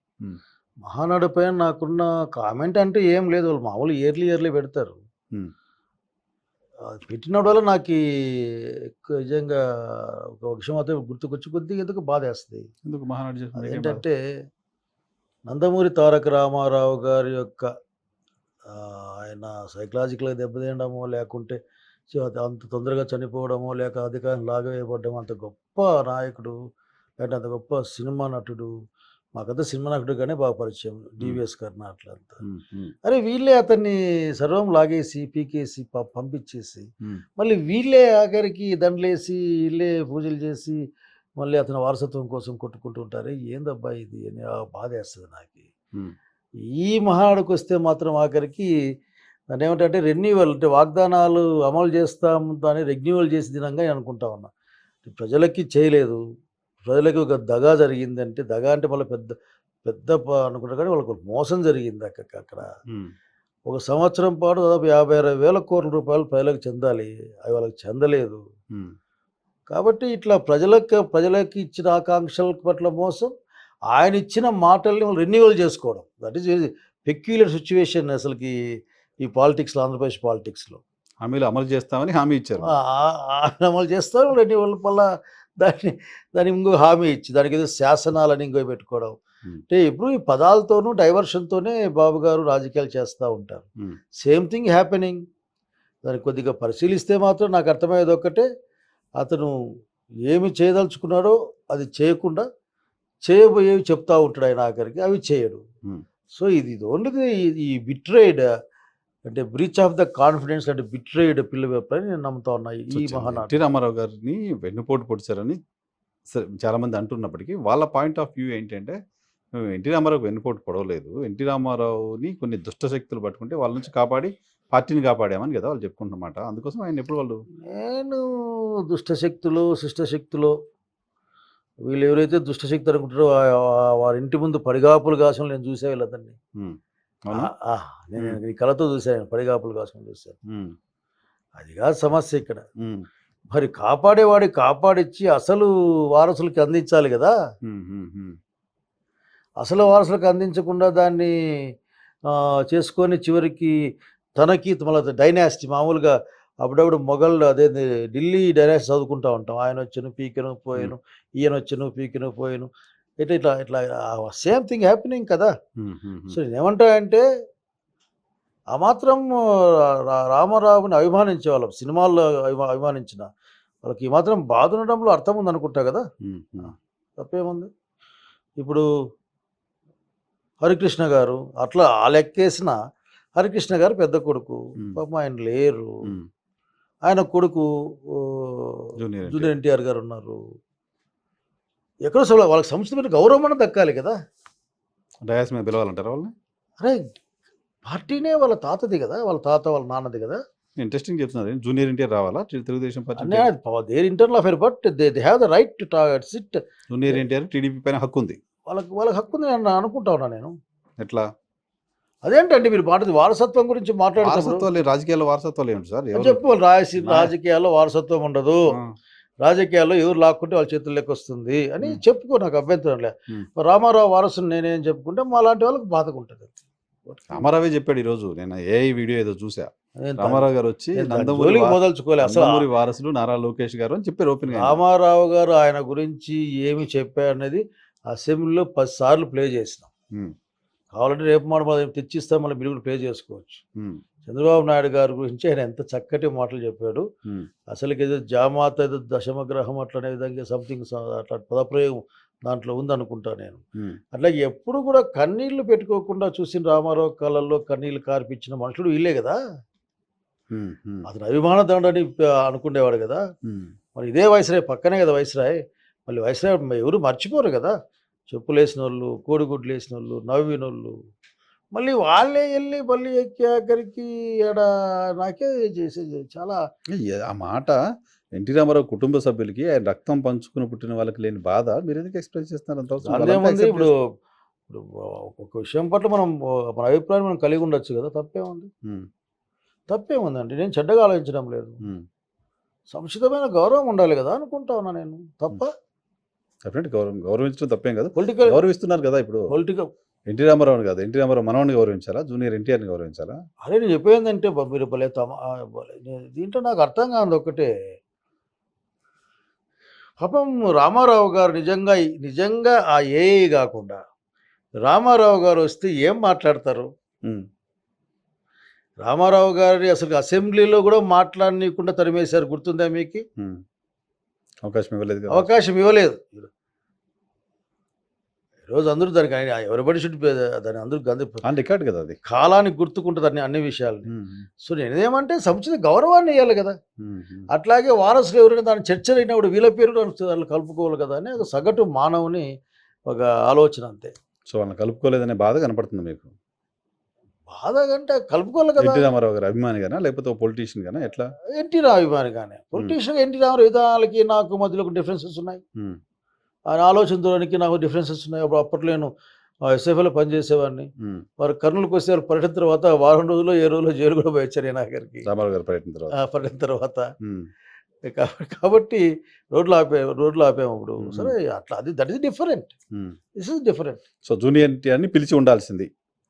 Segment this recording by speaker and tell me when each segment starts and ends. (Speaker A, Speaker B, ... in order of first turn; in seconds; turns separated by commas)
Speaker A: 0.9-5.0, Speaker A: 6.9-12.7, Speaker B: 12.8-14.0, Speaker A: 13.6-14.2, Speaker A: 15.5-17.7, Speaker A: 18.7-21.6, Speaker A: 22.1-26.5, Speaker A: 27.2-28.7, Speaker A: 29.4-32.4, Speaker B: 32.4-32.9, Speaker A: 33.0-40.8, Speaker A: 41.4-45.7, Speaker A: 46.8-48.7, Speaker A: 49.5-54.5, Speaker A: 55.0-56.2, Speaker A: 56.9-59.3, Speaker A: 59.9-62.7, Speaker A: 63.7-68.4, Speaker A: 69.7-73.3, Speaker A: 73.9-78.5, Speaker A: 79.2-80.8, Speaker B: 81.2-82.7, Speaker A: 82.7-85.1, Speaker A: 85.6-89.1, Speaker A: 89.7-95.2, Speaker A: 96.0-98.5, Speaker A: 99.2-99.5, Speaker A: 100.3-102.5, Speaker A: 103.2-105.6, Speaker A: 106.3-108.5, Speaker A: 109.3-113.5, Speaker B: 112.9-115.6, Speaker B: 116.3-119.0, Speaker B: 119.6-127.4, Speaker A: 127.7-130.6, Speaker A: 131.9-136.4, Speaker B: 136.6-137.5, Speaker A: 137.3-140.4, Speaker B: 140.5-140.8, Speaker A: 141.6-142.6, Speaker A: 143.5-147.3, Speaker B: 147.7-148.4, Speaker A: 149.6-151.3, Speaker A: 152.3-153.7, Speaker A: 154.4-162.7, Speaker A: 163.2-165.5, Speaker B: 165.8-166.4, Speaker A: 166.3-167.2, Speaker A: 168.7-169.3, Speaker A: 169.9-173.3, Speaker A: 173.8-176.1, Speaker B: 176.2-176.7, Speaker A: 177.2-177.7, Speaker A: 178.6-178.8, Speaker A: 180.6-182.8, Speaker A: 183.4-185.9, Speaker A: 187.1-190.4, Speaker B: 189.0-189.5, Speaker A: 192.1-194.2, Speaker B: 195.3-196.3, Speaker A: 196.8-197.2, Speaker A: 197.8-200.4, Speaker B: 200.8-203.5, Speaker A: 203.2-207.2, Speaker B: 206.9-208.4, Speaker A: 208.7-210.6, Speaker B: 211.0-211.3, Speaker A: 212.2-214.7, Speaker B: 214.2-216.4, Speaker A: 216.2-218.6, Speaker B: 217.0-217.3, Speaker A: 219.4-226.6, Speaker A: 227.1-227.4, Speaker B: 227.3-234.8, Speaker A: 230.0-230.4, Speaker A: 231.0-232.7, Speaker A: 234.5-239.9, Speaker A: 240.9-243.6, Speaker A: 244.3-247.1, Speaker A: 247.7-253.6, Speaker A: 254.1-259.4, Speaker B: 260.5-261.1, Speaker A: 261.1-263.2, Speaker B: 263.4-263.7, Speaker A: 263.9-267.7, Speaker A: 268.3-270.9, Speaker A: 271.7-274.7, Speaker A: 275.2-276.6, Speaker B: 277.0-277.8, Speaker B: 278.4-283.9, Speaker A: 283.1-283.9, Speaker A: 284.7-288.7, Speaker A: 289.9-291.8, Speaker A: 292.9-295.7, Speaker B: 296.6-299.5, Speaker A: 298.2-298.6, Speaker A: 299.5-299.9, Speaker B: 300.3-303.4, Speaker A: 303.6-307.7, Speaker A: 310.2-314.0, Speaker A: 314.8-316.9, Speaker A: 319.0-323.2, Speaker B: 324.6-325.5, Speaker A: 325.3-326.5, Speaker A: 328.7-331.4, Speaker B: 331.4-332.2, Speaker A: 332.2-336.8, Speaker B: 334.1-334.4, Speaker B: 337.0-337.5, Speaker A: 337.5-342.4, Speaker A: 343.1-344.1, Speaker B: 344.5-346.3, Speaker A: 347.5-349.1, Speaker B: 348.8-351.3, Speaker A: 351.6-355.6, Speaker A: 356.7-359.1, Speaker A: 359.7-365.3, Speaker B: 361.0-361.2, Speaker B: 365.2-366.1, Speaker A: 366.1-367.1, Speaker B: 367.2-367.5, Speaker A: 368.1-372.7, Speaker B: 371.0-371.3, Speaker A: 373.4-374.0, Speaker B: 374.2-375.9